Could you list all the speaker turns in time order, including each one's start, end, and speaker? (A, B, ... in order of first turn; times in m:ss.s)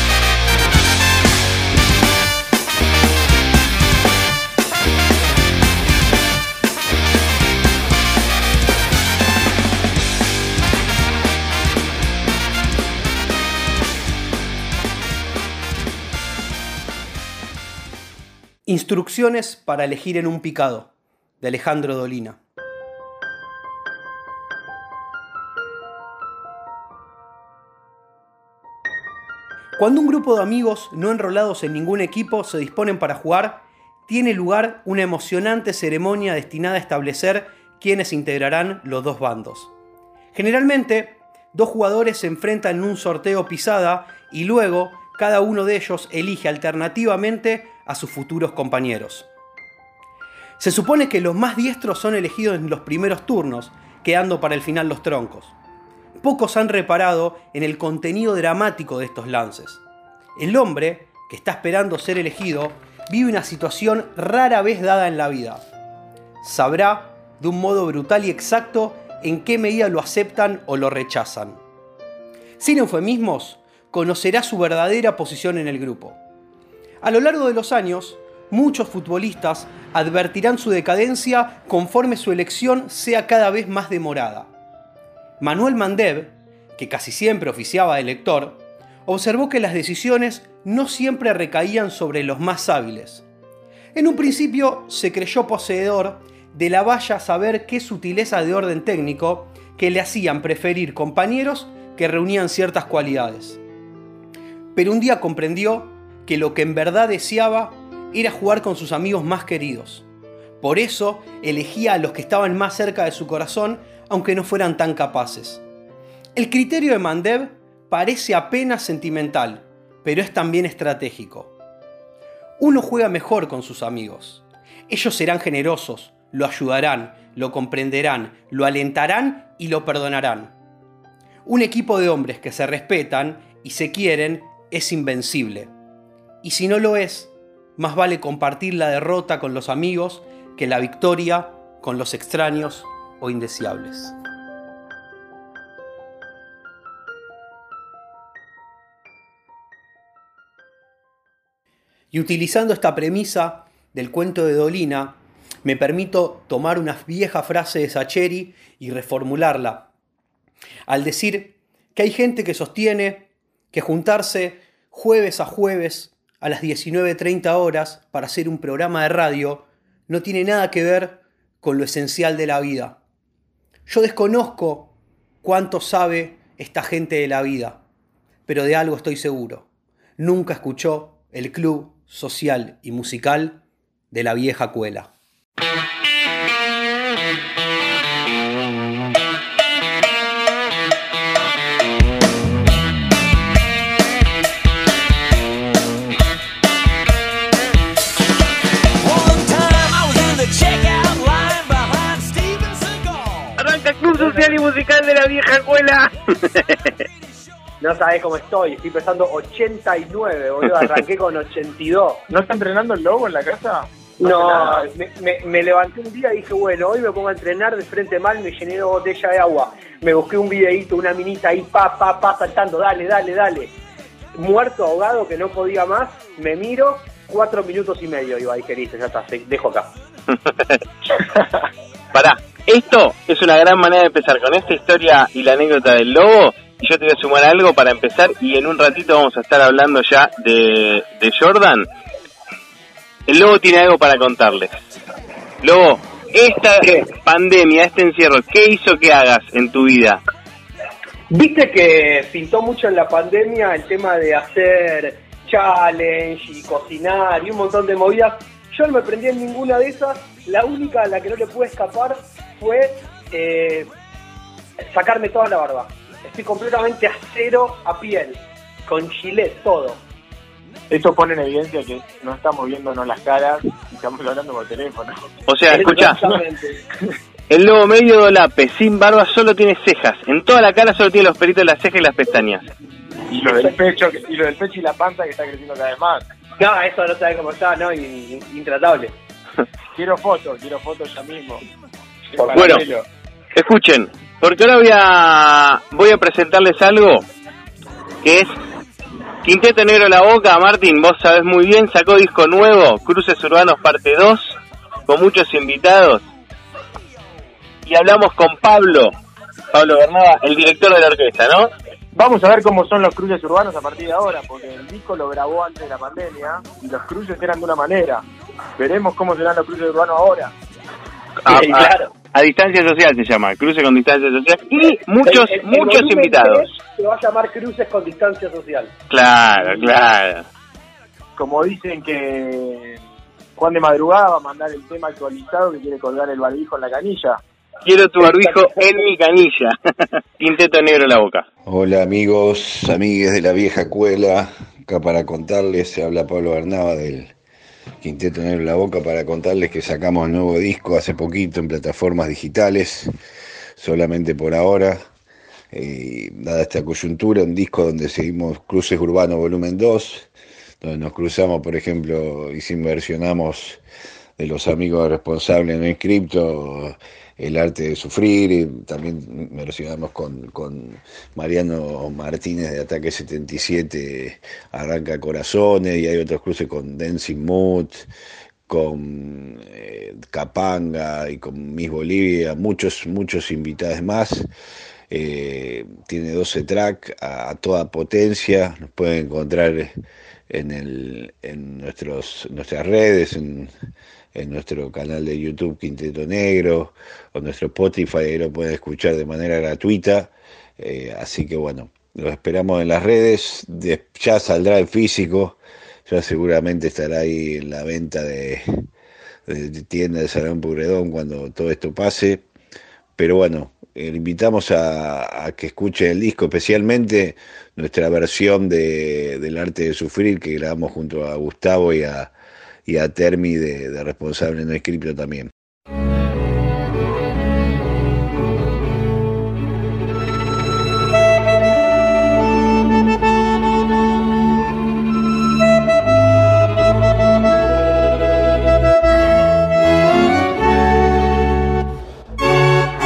0:18.6-0:20.9 A
0:21.4-0:22.4 A
0:29.8-0:39.7 A
0:40.3-0:49.3 A
0:50.6-0:55.5 A
0:56.2-0:59.8 A
1:00.4-1:05.6 A
1:06.4-1:11.6 A
1:12.6-1:16.2 A
1:17.0-1:24.5 A
1:25.4-1:33.2 A
1:33.9-1:43.6 A
1:44.7-1:50.0 A
1:50.6-1:55.6 A
1:56.4-2:01.5 A
2:02.6-2:10.5 A
2:11.4-2:15.7 A
2:16.4-2:24.1 A
2:32.1-2:39.9 A
2:40.9-2:53.0 A
2:53.9-2:57.8 A
2:58.5-2:59.6 A
3:00.2-3:05.1 A
3:23.6-3:26.9 B
3:27.8-3:32.2 C
3:32.3-3:34.8 D
3:34.2-3:43.7 C
3:44.3-3:49.9 C
3:50.5-3:50.7 B
3:52.1-4:01.9 B
4:03.3-4:04.7 B
4:05.6-4:10.2 B
4:11.3-4:23.9 C
4:24.8-4:30.0 C
4:30.9-4:35.1 D
4:35.5-4:36.2 B
4:35.8-4:36.4 D
4:35.8-4:36.6 C
4:37.5-4:42.6 B
4:43.3-4:46.2 D
4:43.4-4:43.7 C
4:46.6-4:49.1 C
4:49.9-4:51.6 D
4:52.3-4:53.0 D
4:52.4-4:52.8 C
4:52.5-4:52.8 B
4:53.5-4:57.2 B
4:58.2-4:58.5 B
4:59.4-5:04.6 B
5:05.1-5:06.2 B
5:07.8-5:09.1 B
5:09.7-5:11.7 B
5:12.1-5:18.2 D
5:18.8-5:20.5 D
5:21.4-5:26.7 B
5:25.2-5:28.9 C
5:29.1-5:30.4 B
5:31.4-5:33.0 D
5:33.6-5:37.4 D
5:37.8-5:39.7 B
5:40.4-5:41.4 B
5:41.6-5:47.3 E
5:48.0-5:53.1 E
5:53.8-5:55.0 E
5:55.7-6:00.3 E
6:00.8-6:03.8 E
6:04.4-6:18.1 E
6:18.7-6:24.5 E
6:25.1-6:30.0 E
6:30.5-6:33.7 E
6:34.3-6:48.7 E
6:49.5-6:52.4 E
6:53.2-7:02.3 E
7:02.8-7:05.5 E